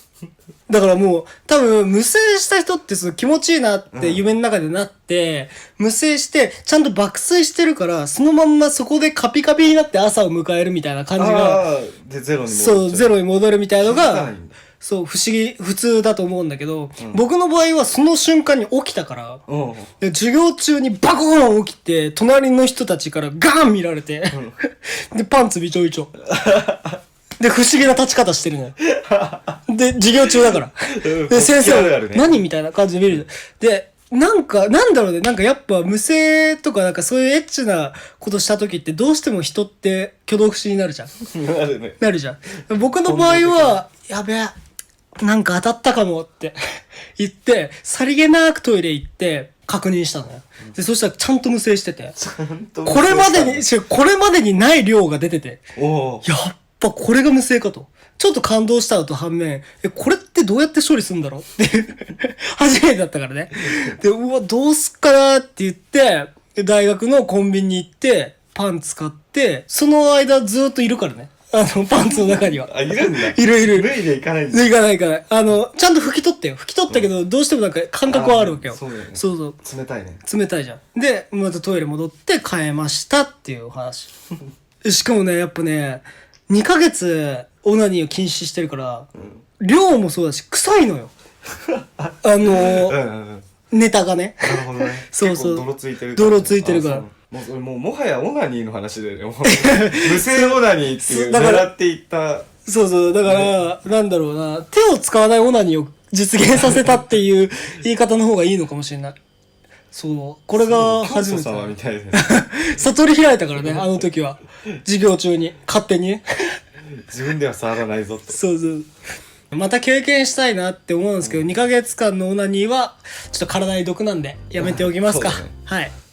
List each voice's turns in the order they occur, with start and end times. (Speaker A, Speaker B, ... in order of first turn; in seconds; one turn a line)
Speaker A: 0.7-11.7
Speaker B: 3.9-4.2
Speaker B: 11.2-13.2
Speaker A: 12.5-19.4
Speaker B: 13.8-14.6
Speaker B: 19.5-19.9
Speaker A: 20.0-26.1
Speaker B: 24.3-24.6
Speaker B: 26.3-27.0
Speaker A: 27.4-28.8
Speaker B: 28.9-29.5
Speaker A: 29.7-41.1
Speaker B: 30.9-32.4
Speaker B: 41.2-42.0
Speaker A: 42.0-44.5
Speaker B: 43.0-43.8
Speaker A: 45.2-46.6
Speaker A: 47.2-52.1
Speaker B: 52.2-53.7
Speaker A: 52.9-55.6
Speaker B: 55.8-56.3
Speaker A: 56.2-79.6
Speaker B: 72.0-74.7
Speaker B: 78.1-80.2
Speaker A: 80.2-84.1
Speaker A: 84.8-89.1
Speaker A: 89.6-91.1
Speaker A: 92.2-93.0
Speaker B: 92.5-93.5
Speaker A: 93.7-97.0
Speaker B: 94.4-102.5
Speaker A: 99.5-101.7
Speaker A: 102.7-109.2
Speaker B: 103.2-103.5
Speaker A: 109.9-116.2
Speaker B: 110.6-112.4
Speaker B: 117.1-118.4
Speaker A: 118.3-118.9
Speaker A: 119.5-125.9
Speaker B: 121.2-121.5
Speaker B: 124.6-125.5